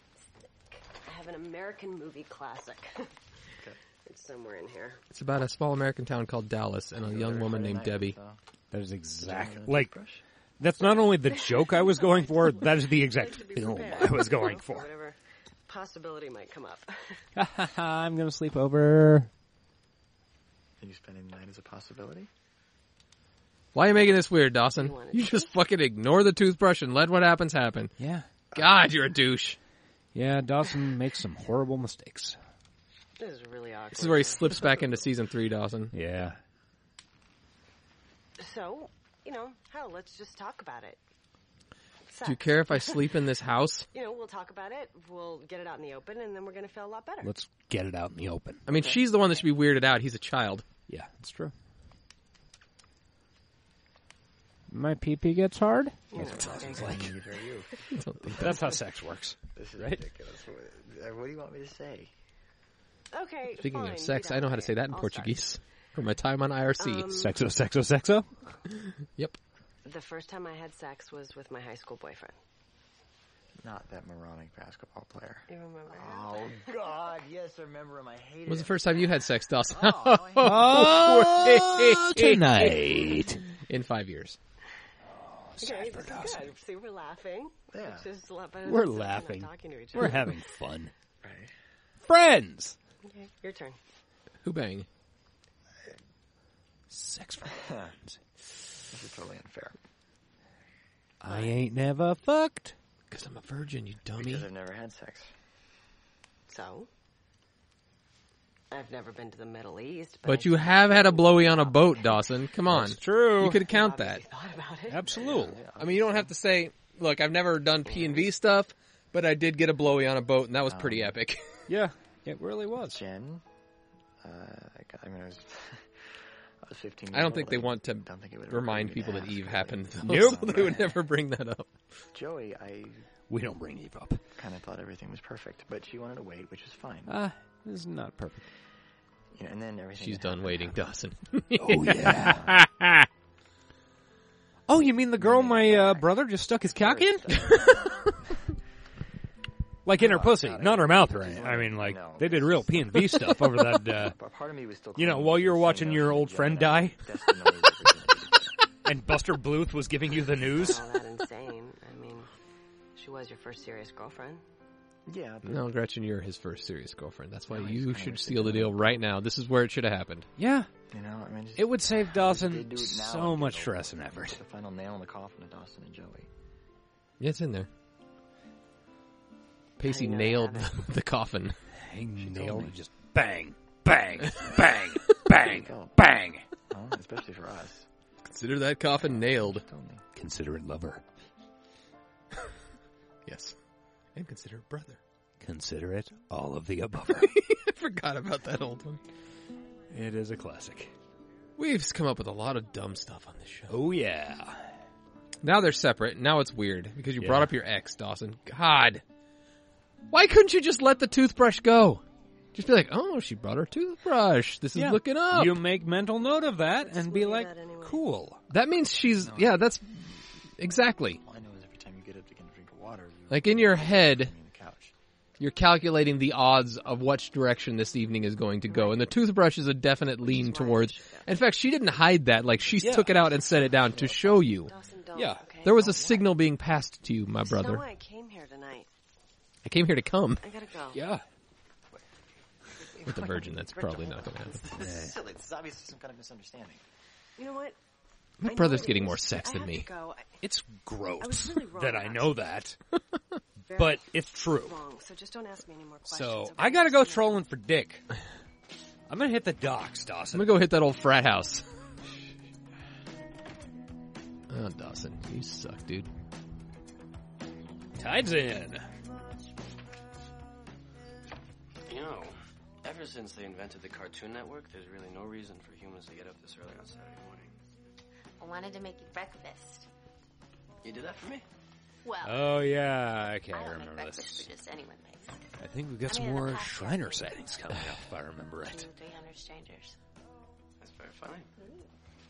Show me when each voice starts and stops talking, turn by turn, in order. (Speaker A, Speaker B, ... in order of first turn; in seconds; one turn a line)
Speaker A: 1.0-3.1
Speaker A: 4.0-5.0
Speaker B: 5.1-8.2
Speaker C: 7.0-8.4
Speaker D: 8.7-9.9
Speaker C: 9.2-10.2
Speaker D: 10.6-14.9
Speaker A: 10.8-17.2
Speaker D: 17.4-19.3
Speaker C: 20.8-22.3
Speaker B: 23.7-27.9
Speaker A: 24.8-25.6
Speaker D: 28.0-28.3
Speaker B: 28.5-29.6
Speaker D: 30.1-32.4
Speaker A: 33.2-35.0
Speaker B: 33.9-35.9
Speaker D: 35.9-36.4
Speaker A: 38.4-41.0
Speaker A: 42.1-43.1
Speaker B: 42.2-43.9
Speaker A: 43.9-47.3
Speaker D: 47.2-48.6
Speaker B: 48.7-50.6
Speaker D: 50.9-51.5
Speaker D: 54.7-57.1
Speaker A: 56.1-57.1
Speaker C: 56.2-57.7
Speaker B: 58.0-58.6
Speaker D: 58.4-60.0
Speaker C: 59.5-62.1
Speaker A: 63.1-65.5
Speaker B: 63.5-67.1
Speaker A: 66.8-67.3
Speaker D: 67.1-68.3
Speaker B: 68.8-69.4
Speaker A: 69.8-72.4
Speaker C: 73.6-79.2
Speaker A: 75.5-76.6
Speaker B: 78.5-84.4
Speaker C: 79.7-80.3
Speaker D: 80.4-83.4
Speaker D: 85.2-86.5
Speaker A: 85.6-90.3
Speaker C: 87.7-88.1
Speaker D: 88.6-90.9
Speaker C: 91.2-91.5
Speaker D: 92.1-92.8
Speaker A: 93.0-93.8
Speaker B: 94.4-94.9
Speaker D: 96.9-97.6
Speaker C: 97.4-97.9
Speaker C: 98.9-99.8
Speaker D: 101.2-102.8
Speaker B: 103.1-104.5
Speaker C: 104.1-105.3
Speaker A: 106.5-106.9
Speaker A: 108.7-112.3
Speaker B: 110.3-114.2
Speaker D: 112.7-113.6
Speaker A: 113.7-115.0
Speaker D: 114.9-115.6
Speaker C: 115.0-116.3
Speaker B: 115.7-121.5
Speaker A: 117.9-118.2
Speaker C: 120.7-121.1
Speaker D: 121.7-123.0
Speaker C: 122.8-123.4
Speaker C: 124.2-125.9
Speaker C: 126.6-131.0
Speaker B: 127.1-131.7
Speaker D: 130.0-130.5
Speaker C: 132.1-133.1
Speaker D: 133.3-134.2
Speaker C: 134.4-137.2
Speaker D: 137.1-138.4
Speaker C: 139.3-140.8
Speaker B: 140.0-143.1
Speaker D: 141.6-142.6
Speaker D: 144.7-147.7
Speaker C: 145.0-148.2
Speaker D: 149.9-154.2
Speaker C: 149.9-158.6
Speaker D: 154.9-157.0
Speaker D: 158.8-160.9
Speaker A: 160.4-162.3
Speaker A: 163.0-164.4
Speaker C: 165.1-165.7
Speaker B: 165.4-170.3
Speaker C: 167.5-169.0
Speaker D: 170.4-170.7
Speaker C: 170.9-176.3
Speaker D: 171.6-174.4
Speaker B: 177.2-177.7
Speaker B: 179.8-181.6
Speaker A: 179.8-180.8
Speaker D: 181.8-186.4
Speaker C: 182.2-182.7
Speaker C: 185.3-187.9
Speaker B: 188.2-189.7
Speaker C: 189.0-190.0
Speaker D: 190.2-191.0
Speaker B: 193.3-193.6
Speaker B: 194.2-195.0
Speaker D: 195.4-197.3
Speaker B: 197.1-199.0
Speaker D: 199.9-200.9
Speaker B: 201.6-203.8
Speaker D: 203.7-204.8
Speaker B: 205.4-209.0
Speaker D: 207.2-207.5
Speaker B: 210.1-212.0
Speaker B: 212.6-215.6
Speaker D: 214.8-218.4
Speaker A: 216.8-218.1
Speaker B: 218.5-220.1
Speaker C: 219.2-219.6
Speaker B: 220.6-221.2
Speaker C: 221.2-224.9
Speaker B: 223.3-224.3
Speaker B: 225.4-234.7
Speaker A: 228.7-229.0
Speaker A: 230.2-231.3
Speaker D: 232.8-233.2
Speaker C: 233.9-234.3
Speaker A: 234.5-236.0
Speaker D: 235.2-235.5
Speaker B: 235.6-237.8
Speaker A: 237.4-238.9
Speaker B: 239.6-240.4
Speaker A: 240.4-241.0
Speaker D: 240.9-241.2
Speaker C: 242.8-246.8
Speaker B: 243.1-244.6
Speaker D: 244.8-245.2
Speaker A: 247.4-247.8
Speaker B: 248.4-249.9
Speaker A: 248.4-250.3
Speaker D: 250.4-252.8
Speaker A: 251.2-252.5
Speaker A: 253.7-257.4
Speaker D: 253.7-254.8
Speaker D: 256.1-258.0
Speaker D: 259.1-260.6
Speaker B: 260.3-261.6
Speaker B: 264.5-266.1
Speaker D: 268.0-268.9
Speaker E: 271.9-277.6
Speaker F: 278.4-279.9
Speaker E: 280.8-281.4
Speaker F: 282.0-282.6
Speaker D: 282.2-284.5
Speaker F: 283.5-285.4
Speaker D: 285.6-288.9
Speaker F: 286.1-287.4
Speaker F: 288.6-290.0
Speaker E: 290.8-291.5
Speaker F: 291.6-291.9